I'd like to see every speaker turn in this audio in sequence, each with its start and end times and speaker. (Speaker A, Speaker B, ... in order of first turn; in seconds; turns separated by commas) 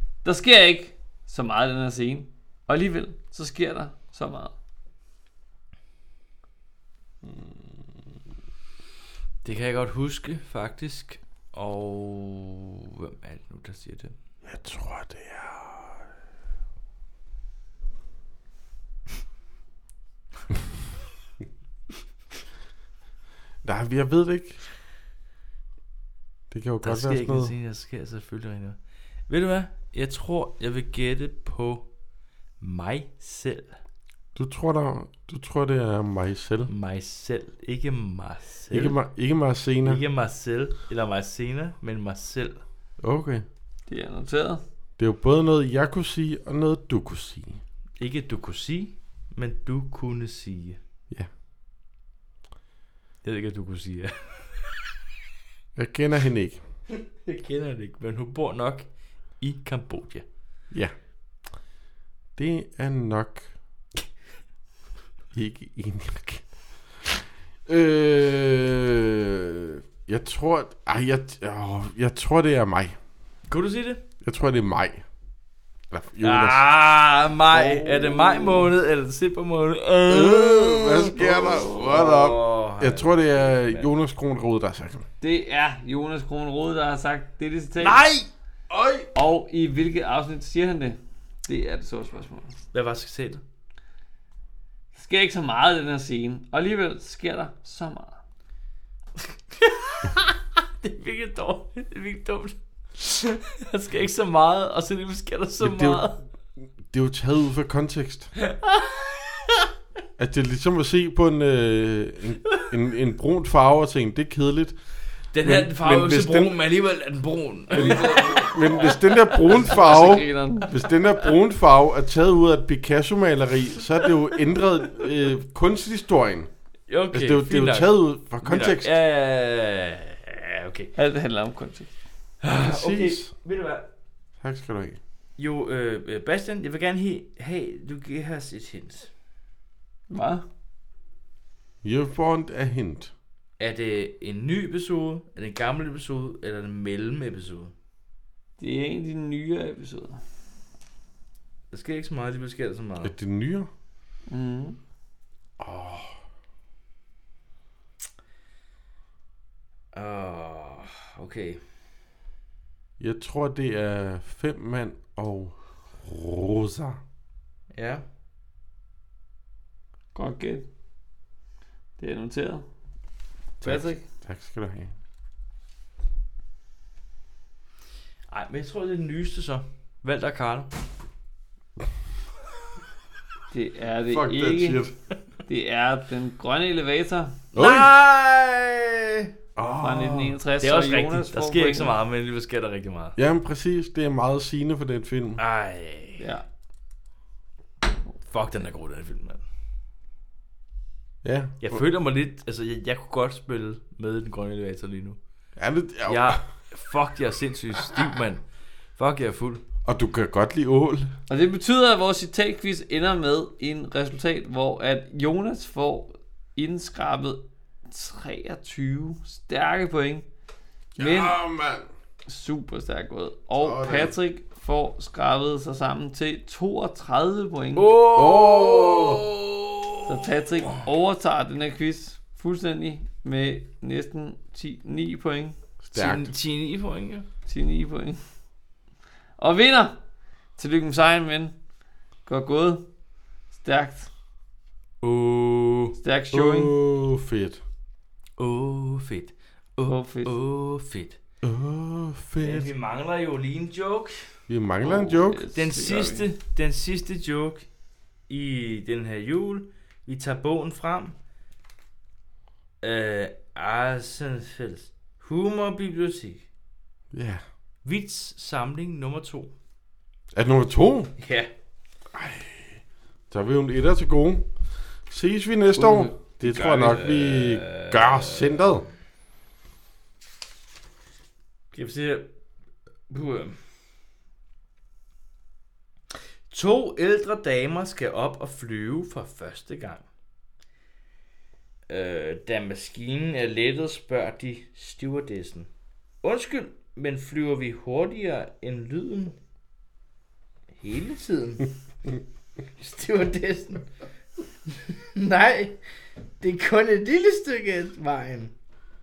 Speaker A: 0.2-4.5, Speaker B: 9.4-14.1, Speaker C: 14.4-15.9, Speaker C: 23.6-24.6, Speaker C: 26.5-27.5, Speaker B: 26.8-28.8, Speaker B: 29.3-31.9, Speaker B: 32.6-33.7, Speaker C: 34.3-36.7, Speaker B: 36.7-39.0, Speaker C: 38.7-40.0, Speaker B: 39.8-42.6, Speaker C: 43.0-43.4, Speaker A: 43.9-44.6, Speaker C: 45.0-47.6, Speaker B: 48.0-50.8, Speaker B: 53.2-54.7, Speaker C: 55.8-56.6, Speaker B: 56.9-60.2, Speaker C: 62.4-63.5, Speaker C: 65.3-66.4, Speaker C: 67.7-72.9, Speaker B: 73.5-74.0, Speaker C: 74.2-75.0, Speaker C: 75.9-76.6, Speaker B: 76.2-83.9, Speaker A: 77.5-78.7, Speaker C: 80.1-85.0, Speaker A: 81.1-82.1, Speaker A: 85.2-88.0, Speaker B: 87.8-88.3, Speaker C: 88.7-89.1, Speaker A: 89.1-92.5, Speaker B: 92.7-93.4, Speaker A: 94.9-98.2, Speaker B: 99.6-106.2, Speaker C: 105.6-106.0, Speaker C: 106.8-108.3, Speaker B: 108.4-109.7, Speaker C: 110.2-114.8, Speaker B: 115.3-119.8, Speaker C: 115.4-116.6, Speaker C: 117.7-126.5, Speaker A: 117.8-118.4, Speaker A: 119.3-120.8, Speaker B: 126.9-130.9, Speaker C: 127.1-128.9, Speaker A: 130.9-131.9, Speaker B: 132.4-133.9, Speaker C: 132.5-133.3, Speaker C: 134.4-135.0, Speaker B: 135.4-139.1, Speaker A: 140.1-140.4, Speaker C: 141.8-143.1, Speaker B: 143.6-147.7, Speaker A: 148.6-150.2, Speaker B: 151.7-153.1, Speaker C: 153.0-153.7, Speaker A: 154.3-154.8, Speaker C: 155.6-156.2, Speaker B: 159.9-161.6, Speaker C: 163.0-167.0, Speaker B: 167.7-168.0, Speaker A: 170.1-170.7, Speaker A: 172.0-172.6, Speaker A: 173.6-174.0, Speaker C: 173.6-174.9, Speaker B: 178.3-180.7, Speaker A: 183.5-184.8, Speaker C: 184.1-184.9, Speaker A: 185.4-187.4, Speaker B: 187.5-189.3, Speaker C: 187.5-187.9, Speaker C: 189.6-190.4, Speaker A: 189.8-192.0, Speaker B: 190.6-193.2, Speaker C: 193.2-195.4, Speaker B: 195.4-196.2, Speaker A: 196.2-196.4, Speaker B: 198.2-199.4, Speaker C: 201.2-201.8, Speaker B: 201.6-205.2, Speaker C: 205.6-206.4, Speaker B: 206.1-208.4, Speaker B: 209.0-209.6, Speaker C: 209.8-211.1, Speaker A: 211.3-220.2, Speaker C: 221.0-221.9, Speaker A: 221.0-221.4, Speaker A: 222.3-227.9, Speaker C: 223.6-224.1, Speaker B: 227.7-230.3, Speaker C: 228.1-229.2, Speaker A: 230.1-235.6, Speaker C: 235.8-236.3, Speaker B: 235.9-237.2, Speaker A: 237.4-238.2, Speaker A: 239.4-240.0, Speaker A: 240.6-241.5, Speaker A: 242.2-242.8, Speaker A: 243.5-244.1, Speaker B: 245.0-246.0, Speaker A: 246.0-246.7, Speaker C: 246.3-247.6, Speaker B: 248.4-251.2, Speaker A: 249.8-250.3, Speaker C: 251.4-252.7, Speaker B: 252.4-254.1, Speaker C: 254.5-255.5, Speaker A: 254.8-256.3, Speaker B: 255.5-257.6, Speaker B: 258.3-261.1, Speaker B: 262.8-266.4, Speaker C: 267.1-267.4, Speaker B: 267.8-269.5, Speaker C: 270.3-271.1, Speaker B: 271.2-271.5, Speaker C: 272.1-274.5, Speaker C: 275.1-278.9, Speaker A: 275.8-276.1, Speaker B: 276.4-278.8, Speaker B: 281.7-282.3, Speaker B: 283.1-283.6, Speaker B: 286.5-290.0, Speaker B: 291.9-295.7, Speaker B: 296.2-299.4, Speaker B: 300.8-301.7, Speaker B: 302.8-303.9, Speaker B: 304.7-305.8, Speaker B: 306.4-308.5